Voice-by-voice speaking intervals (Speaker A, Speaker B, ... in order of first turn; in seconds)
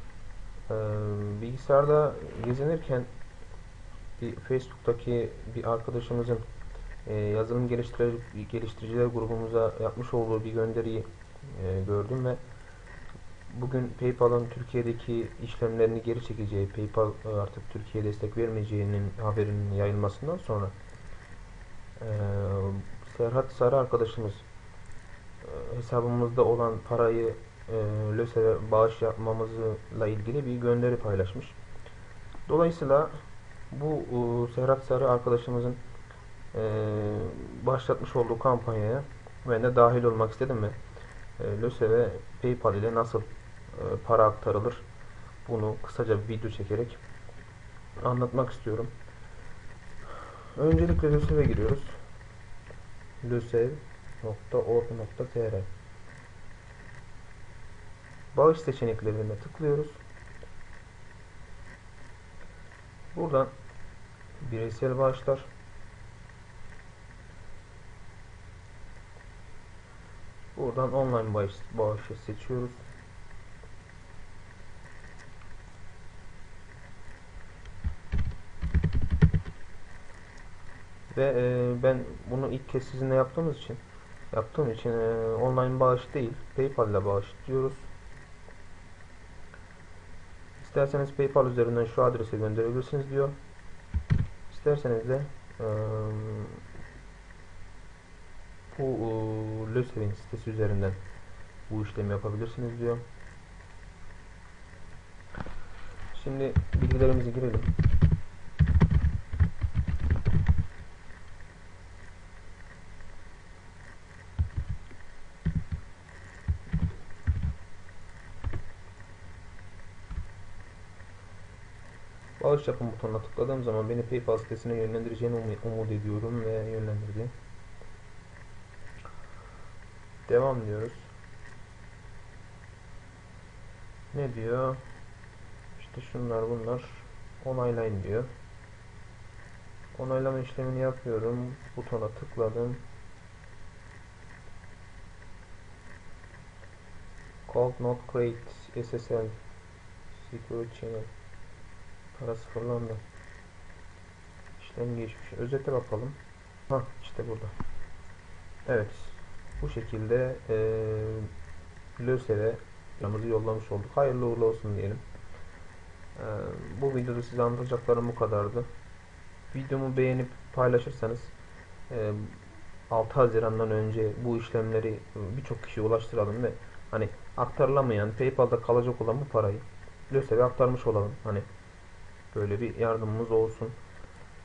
Speaker A: 0.7-3.1, 4.2-6.4, 7.0-12.4, 13.5-20.7, 22.0-24.4, 25.4-31.6, 32.5-33.2, 33.7-35.8, 36.5-40.8, 41.4-44.8, 45.4-47.0, 48.0-48.9, 50.5-52.0, 53.2-55.7, 58.3-60.0, 63.1-63.5, 64.4-65.5, 70.5-72.8, 81.1-83.8, 84.3-87.9, 90.6-93.3, 94.5-96.6, 98.7-101.0, 101.7-103.0, 106.1-107.7, 122.4-127.3, 130.2-131.1, 134.1-134.8, 135.7-138.3, 139.9-142.8, 147.5-149.4, 150.1-151.1, 152.1-153.0, 154.6-156.2, 156.7-157.5, 158.7-161.3, 161.9-165.0, 166.2-168.7, 169.5-171.3, 171.9-181.5, 182.3-183.8